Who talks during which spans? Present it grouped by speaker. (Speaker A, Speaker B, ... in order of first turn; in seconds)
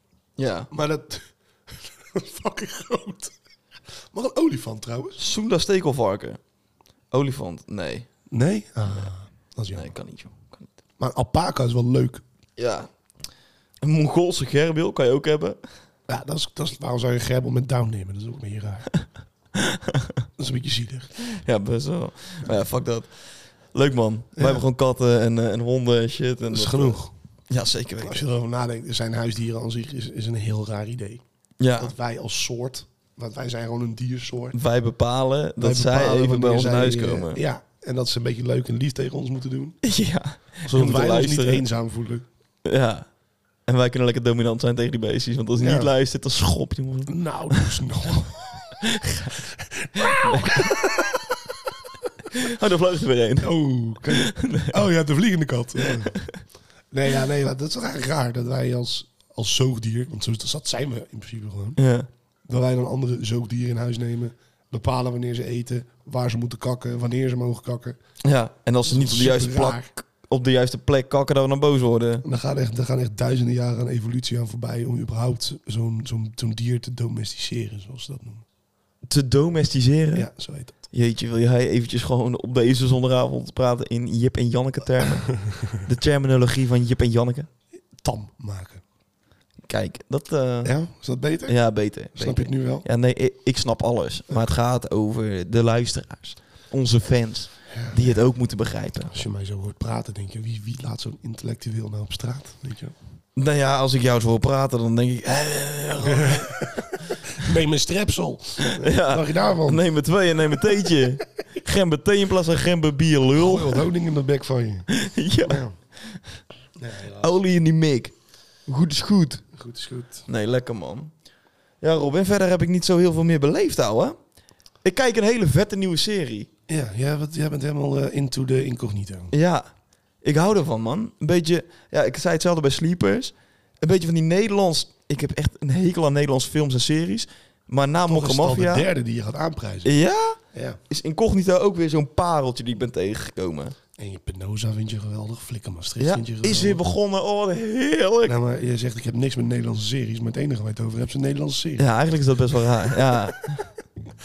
Speaker A: 0.4-0.7, 5.2-6.4, 7.1-8.1, 9.7-10.7, 12.6-12.9, 13.8-15.6, 19.5-20.2, 21.3-28.2, 31.6-31.9, 34.5-37.4, 39.8-41.6, 42.6-43.0, 43.7-47.7, 48.8-49.4, 50.0-50.8, 52.3-53.5, 54.0-54.9, 55.9-56.4, 61.8-62.1, 68.2-72.2, 79.0-80.3, 80.9-87.5, 89.6-90.7, 91.5-99.2, 103.3-106.7, 108.8-113.9, 114.9-116.4, 117.2-118.1, 118.7-119.5, 120.3-121.1, 121.8-124.2, 124.8-126.5, 129.3-129.7, 130.2-138.9, 139.8-143.7, 146.0-148.3, 151.8-153.8
Speaker B: 0.7-3.3, 4.1-5.2, 8.3-9.9, 11.0-12.2, 16.1-18.9, 20.4-21.1, 24.4-24.6, 26.5-27.1, 28.0-31.2, 31.8-34.6, 35.6-39.8, 40.6-42.2, 45.5-45.9, 47.1-48.7, 49.4-51.4, 53.4-56.2, 56.9-61.8, 62.5-68.0, 68.8-69.9, 72.2-78.4, 80.1-80.8, 85.3-85.7, 88.0-88.8, 90.6-91.6, 92.1-92.9, 97.7-98.2, 99.0-102.9, 106.1-109.8, 113.3-114.9, 115.4-115.8, 116.8-117.4, 119.5-120.3, 126.7-129.3, 138.1-139.9, 140.5-140.8, 144.0-146.8, 148.2-151.9, 152.8-153.2